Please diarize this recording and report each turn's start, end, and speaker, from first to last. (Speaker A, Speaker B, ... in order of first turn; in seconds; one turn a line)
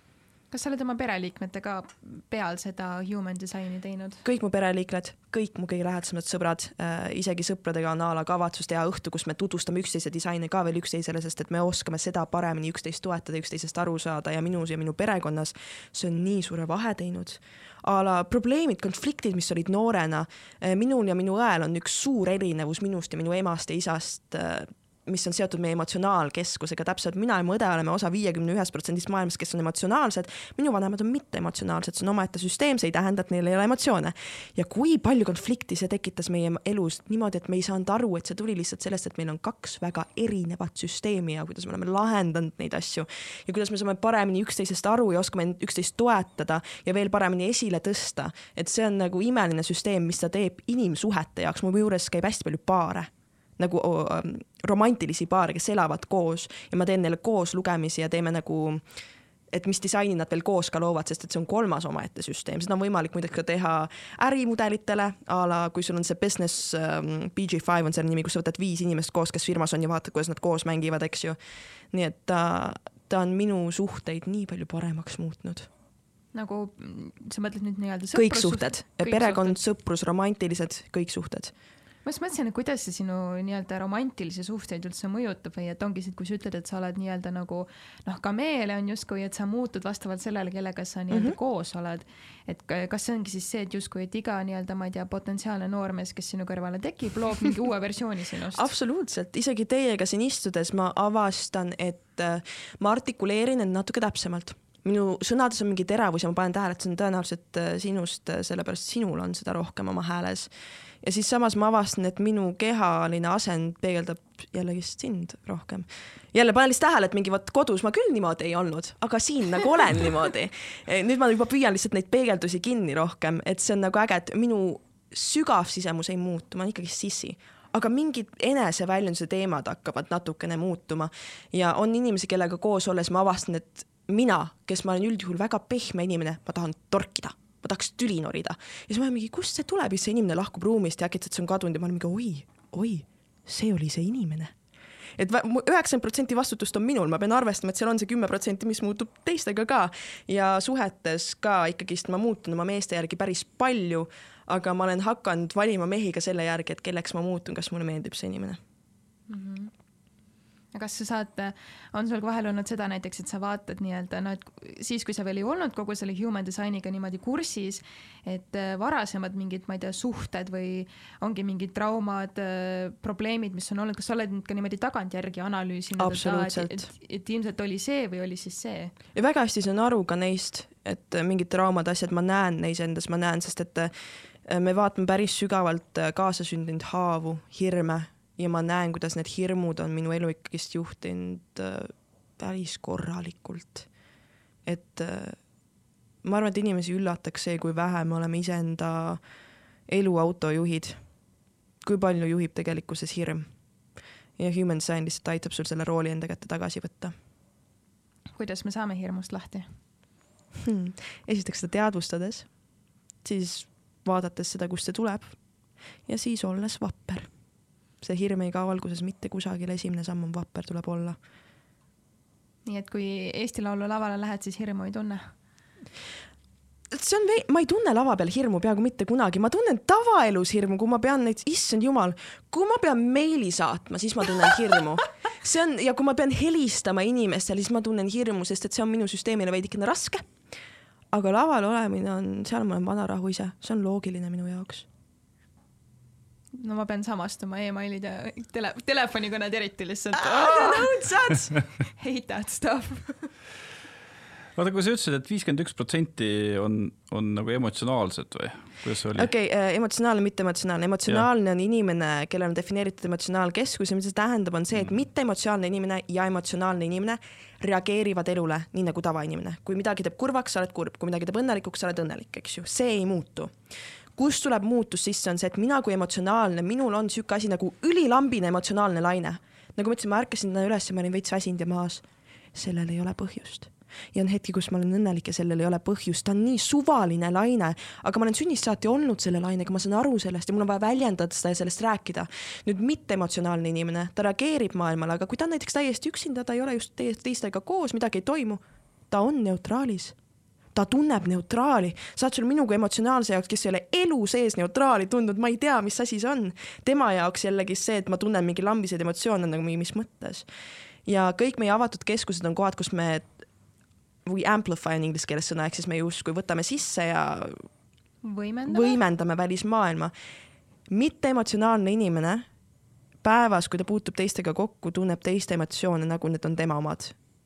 Speaker A: 0.5-4.2
Speaker B: 4.2-58.8
Speaker B: 59.5-71.4
Speaker B: 71.9-75.7
Speaker A: 76.3-79.6
Speaker B: 78.1-81.5
Speaker A: 82.0-98.6
Speaker B: 91.1-91.4
Speaker B: 98.5-110.5
Speaker B: 111.0-144.5
Speaker B: 145.2-158.6
Speaker A: 159.3-159.7
Speaker A: 160.7-178.9
Speaker B: 176.0-176.9
Speaker B: 179.1-183.9
Speaker B: 184.4-193.9
Speaker B: 194.6-195.4
Speaker B: 196.2-199.2
Speaker B: 199.9-201.0
Speaker B: 201.8-203.5
Speaker B: 204.4-207.1
Speaker A: 208.3-209.7
Speaker B: 210.6-212.5
Speaker B: 213.2-215.4
Speaker B: 216.1-217.3
Speaker B: 218.0-221.2
Speaker A: 222.7-225.3
Speaker B: 226.9-240.3
Speaker B: 241.1-244.9
Speaker A: 246.5-250.9
Speaker B: 250.2-251.5
Speaker A: 251.8-253.3
Speaker C: 254.6-259.3
Speaker B: 259.1-273.5
Speaker B: 274.1-300.1
Speaker B: 300.7-310.4
Speaker B: 311.1-313.3
Speaker B: 314.2-317.6
Speaker A: 318.2-319.0
Speaker B: 318.7-320.1
Speaker B: 320.9-322.5
Speaker B: 323.2-327.1